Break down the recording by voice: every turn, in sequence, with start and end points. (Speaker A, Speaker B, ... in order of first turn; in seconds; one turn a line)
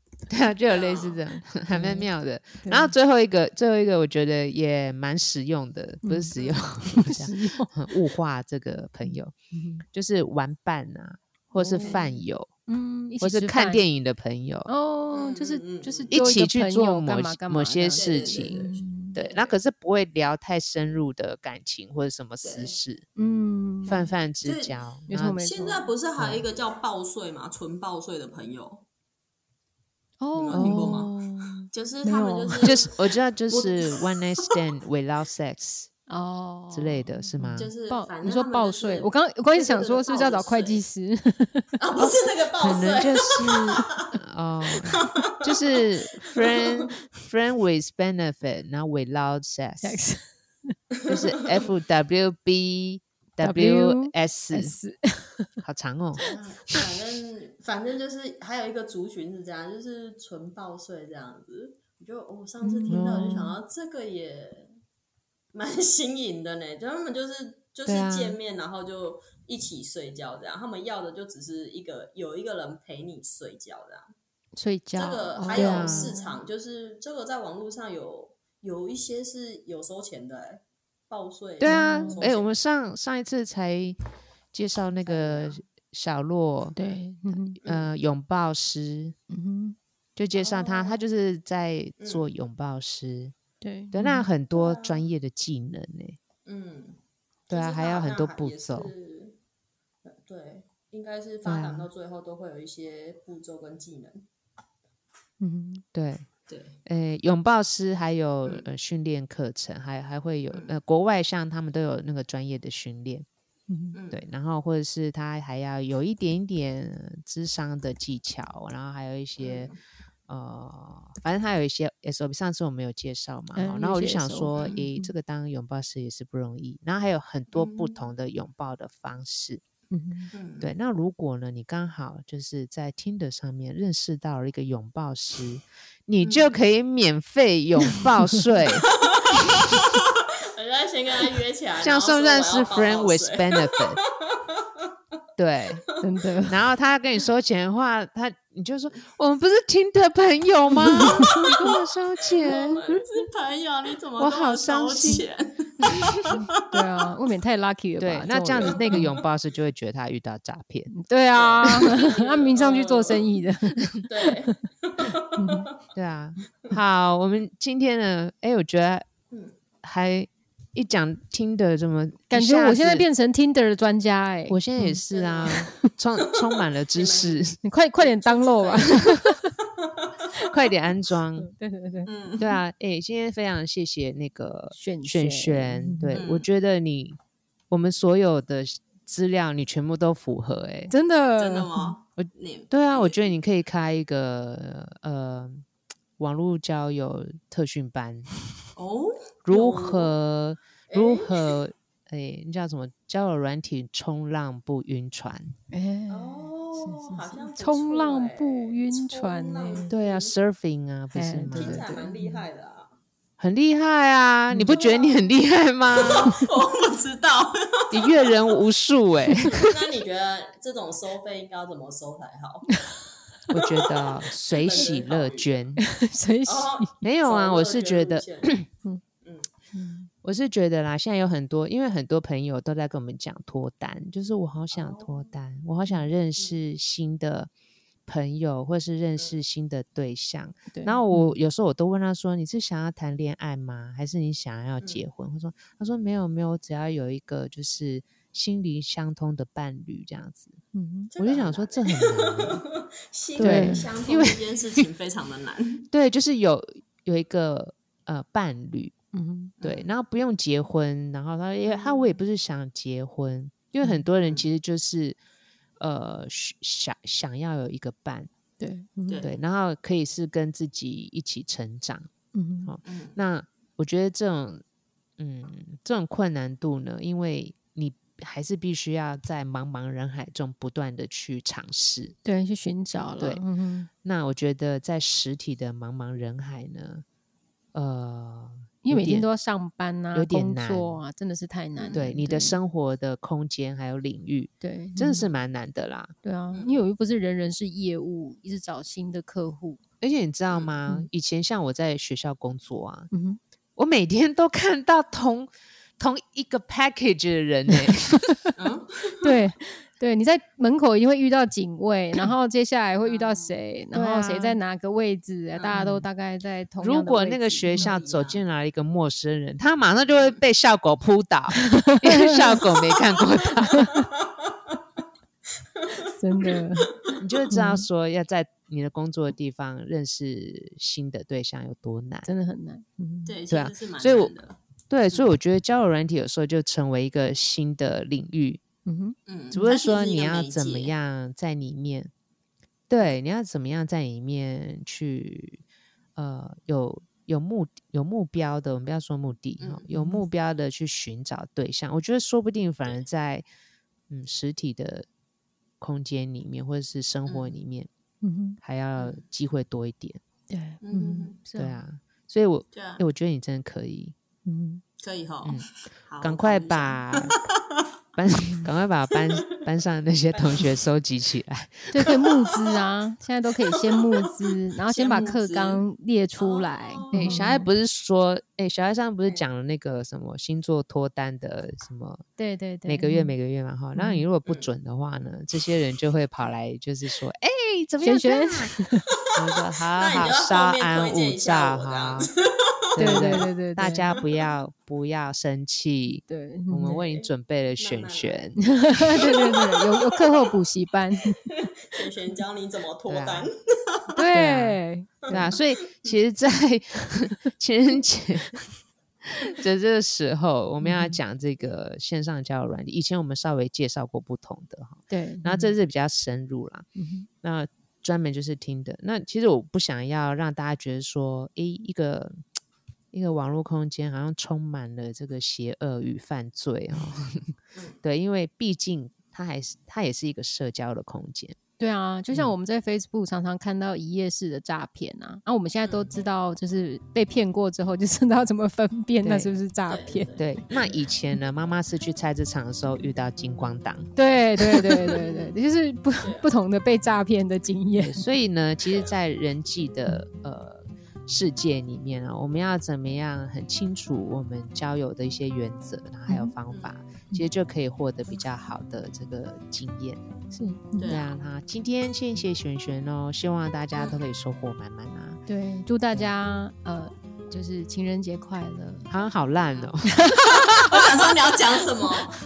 Speaker A: 0.3-9.3
Speaker B: 0.7-1.2
Speaker C: 1.7-2.1
Speaker C: 2.6-2.9
Speaker C: 6.0-6.3
Speaker B: 6.3-6.6
Speaker C: 6.9-7.7
Speaker C: 9.1-9.8
Speaker A: 9.9-12.5
Speaker C: 11.5-13.8
Speaker B: 11.8-12.0
Speaker A: 13.2-14.7
Speaker C: 14.7-19.3
Speaker B: 15.1-16.2
Speaker A: 16.1-23.1
Speaker B: 17.9-19.5
Speaker B: 22.4-22.8
Speaker C: 23.2-24.1
Speaker A: 23.9-25.4
Speaker B: 24.4-24.7
Speaker C: 25.1-25.9
Speaker B: 25.4-28.9
Speaker A: 26.2-26.4
Speaker C: 30.2-32.7
Speaker B: 30.3-31.1
Speaker A: 30.5-31.1
Speaker B: 31.7-34.5
Speaker A: 32.6-35.9
Speaker C: 36.1-41.8
Speaker A: 36.7-37.7
Speaker B: 37.6-40.8
Speaker B: 41.8-44.1
Speaker A: 42.0-50.0
Speaker B: 44.7-46.9
Speaker C: 49.8-50.8
Speaker B: 51.0-51.6
Speaker A: 51.1-54.8
Speaker C: 53.4-55.5
Speaker A: 55.6-56.3
Speaker B: 56.2-64.7
Speaker C: 62.6-63.0
Speaker A: 62.9-63.6
Speaker B: 65.5-74.1
Speaker A: 67.9-68.4
Speaker C: 74.6-76.4
Speaker B: 75.0-82.5
Speaker A: 75.5-76.1
Speaker A: 81.6-84.0
Speaker C: 81.6-82.2
Speaker A: 84.5-86.8
Speaker B: 85.0-85.6
Speaker C: 86.8-87.6
Speaker A: 87.3-89.2
Speaker B: 87.6-87.9
Speaker C: 89.3-89.8
Speaker A: 90.2-93.3
Speaker B: 90.3-91.0
Speaker B: 92.0-92.3
Speaker C: 93.6-94.3
Speaker A: 93.9-96.2
Speaker B: 94.5-95.1
Speaker B: 96.5-97.0
Speaker B: 97.5-99.4
Speaker A: 97.5-98.9
Speaker B: 100.0-104.2
Speaker A: 101.5-101.9
Speaker C: 105.4-105.8
Speaker A: 105.9-106.3
Speaker B: 106.5-106.8
Speaker A: 106.8-113.3
Speaker B: 110.5-110.8
Speaker C: 113.7-114.0
Speaker B: 113.9-114.2
Speaker A: 114.1-119.7
Speaker B: 119.4-119.8
Speaker A: 120.3-129.6
Speaker C: 123.6-125.1
Speaker B: 124.5-124.8
Speaker B: 127.5-128.1
Speaker C: 129.9-130.3
Speaker B: 130.3-130.7
Speaker A: 130.6-139.8
Speaker B: 136.2-136.6
Speaker C: 138.0-138.4
Speaker B: 138.6-144.9
Speaker A: 141.8-144.0
Speaker A: 145.4-145.8
Speaker C: 146.0-146.6
Speaker A: 146.5-152.8
Speaker C: 150.9-151.5
Speaker B: 151.0-156.8
Speaker A: 154.2-155.2
Speaker A: 155.8-156.4
Speaker C: 156.3-159.1
Speaker A: 158.0-160.9
Speaker B: 158.5-159.3
Speaker C: 160.9-165.7
Speaker B: 161.3-163.4
Speaker B: 164.1-165.7
Speaker A: 165.9-169.1
Speaker A: 169.8-173.1
Speaker C: 172.3-175.6
Speaker A: 174.5-177.6
Speaker B: 175.1-175.7
Speaker B: 176.3-180.3
Speaker C: 177.6-179.5
Speaker A: 180.4-181.5
Speaker C: 181.4-182.1
Speaker B: 182.1-182.6
Speaker A: 182.4-187.2
Speaker C: 184.7-186.2
Speaker B: 186.1-186.5
Speaker A: 187.7-190.9
Speaker C: 190.9-191.9
Speaker B: 191.4-193.4
Speaker A: 192.2-195.7
Speaker A: 196.2-198.3
Speaker B: 198.8-200.2
Speaker A: 199.5-205.5
Speaker B: 200.9-201.6
Speaker C: 205.7-209.9
Speaker B: 206.1-210.3
Speaker A: 209.9-212.0
Speaker C: 211.1-212.4
Speaker B: 211.5-212.9
Speaker A: 213.4-216.4
Speaker C: 214.5-214.8
Speaker B: 214.7-215.3
Speaker B: 215.9-218.5
Speaker A: 217.9-219.8
Speaker B: 219.5-222.8
Speaker A: 223.5-225.8
Speaker B: 223.6-225.7
Speaker C: 225.8-226.9
Speaker B: 226.5-228.6
Speaker A: 227.0-228.7
Speaker B: 229.2-229.5
Speaker C: 229.7-230.1
Speaker A: 230.2-237.5
Speaker B: 234.7-235.3
Speaker B: 236.4-236.6
Speaker A: 238.1-250.6
Speaker C: 240.7-241.4
Speaker C: 250.7-251.1
Speaker B: 251.1-255.9
Speaker A: 251.2-252.6
Speaker A: 253.4-254.9
Speaker C: 253.4-253.9
Speaker A: 255.9-258.9
Speaker C: 259.1-259.6
Speaker B: 259.6-259.9
Speaker A: 259.6-265.2
Speaker B: 261.7-262.2
Speaker B: 264.2-264.5
Speaker A: 265.8-268.3
Speaker C: 268.6-269.3
Speaker B: 269.1-269.4
Speaker A: 269.2-272.1
Speaker C: 272.3-272.7
Speaker A: 272.6-274.6
Speaker B: 272.8-273.2
Speaker A: 275.2-282.1
Speaker C: 282.2-283.9
Speaker A: 284.0-287.1
Speaker A: 287.7-289.3
Speaker C: 288.8-292.6
Speaker A: 290.1-291.0
Speaker B: 291.8-292.1
Speaker A: 291.9-296.1
Speaker C: 294.6-295.3
Speaker C: 296.2-299.8
Speaker B: 296.5-296.8
Speaker A: 300.0-303.1
Speaker C: 303.1-303.4
Speaker A: 303.8-308.4
Speaker B: 308.6-309.4
Speaker C: 309.2-317.9
Speaker B: 313.0-313.6
Speaker A: 313.9-314.6
Speaker B: 315.6-315.9
Speaker A: 315.7-316.1
Speaker A: 316.8-324.0
Speaker B: 317.7-318.4
Speaker C: 321.6-322.4
Speaker B: 323.2-325.0
Speaker B: 325.8-326.9
Speaker C: 326.2-326.9
Speaker A: 327.2-332.3
Speaker C: 327.5-327.9
Speaker C: 332.3-333.4
Speaker B: 333.3-334.6
Speaker A: 333.5-334.3
Speaker A: 334.9-338.6
Speaker C: 338.9-339.2
Speaker B: 339.3-340.9
Speaker A: 339.5-342.1
Speaker A: 342.9-345.6
Speaker A: 346.2-353.5
Speaker B: 349.6-349.9
Speaker C: 349.9-350.2
Speaker A: 354.1-355.1
Speaker A: 355.8-357.9
Speaker B: 357.3-357.6
Speaker C: 358.2-358.6
Speaker A: 358.6-360.2
Speaker B: 359.0-359.2
Speaker C: 360.5-361.7
Speaker B: 360.8-361.5
Speaker A: 361.5-364.1
Speaker B: 362.7-363.1
Speaker C: 364.5-364.8
Speaker B: 365.0-367.9
Speaker A: 366.2-367.4
Speaker A: 368.2-372.2
Speaker B: 369.1-369.6
Speaker B: 370.3-370.8
Speaker C: 371.9-377.7
Speaker B: 372.2-372.8
Speaker B: 373.7-375.8
Speaker B: 376.4-377.6
Speaker A: 377.1-382.2
Speaker C: 382.4-383.3
Speaker A: 382.9-388.8
Speaker C: 383.9-384.2
Speaker C: 388.0-389.1
Speaker A: 389.3-392.3
Speaker B: 389.9-393.4
Speaker A: 392.9-398.7
Speaker C: 393.0-394.1
Speaker B: 394.1-394.4
Speaker C: 396.3-397.0
Speaker B: 397.0-400.5
Speaker C: 398.6-401.4
Speaker B: 401.5-404.1
Speaker A: 403.1-403.5
Speaker C: 404.1-405.5
Speaker A: 404.1-408.6
Speaker B: 405.3-406.2
Speaker A: 409.4-416.9
Speaker C: 410.8-411.2
Speaker C: 415.1-415.8
Speaker C: 416.9-417.3
Speaker A: 417.4-422.4
Speaker A: 423.1-431.6
Speaker C: 431.8-440.4
Speaker B: 435.9-436.2
Speaker A: 439.2-439.5
Speaker B: 439.9-441.0
Speaker A: 440.4-444.1
Speaker C: 444.2-448.3
Speaker B: 445.1-445.5
Speaker B: 446.2-446.5
Speaker A: 448.0-465.4
Speaker C: 456.3-456.5
Speaker B: 456.7-457.0
Speaker C: 460.5-461.1
Speaker B: 461.0-461.4
Speaker C: 465.5-469.1
Speaker A: 469.1-470.3
Speaker C: 470.2-470.9
Speaker B: 470.9-472.4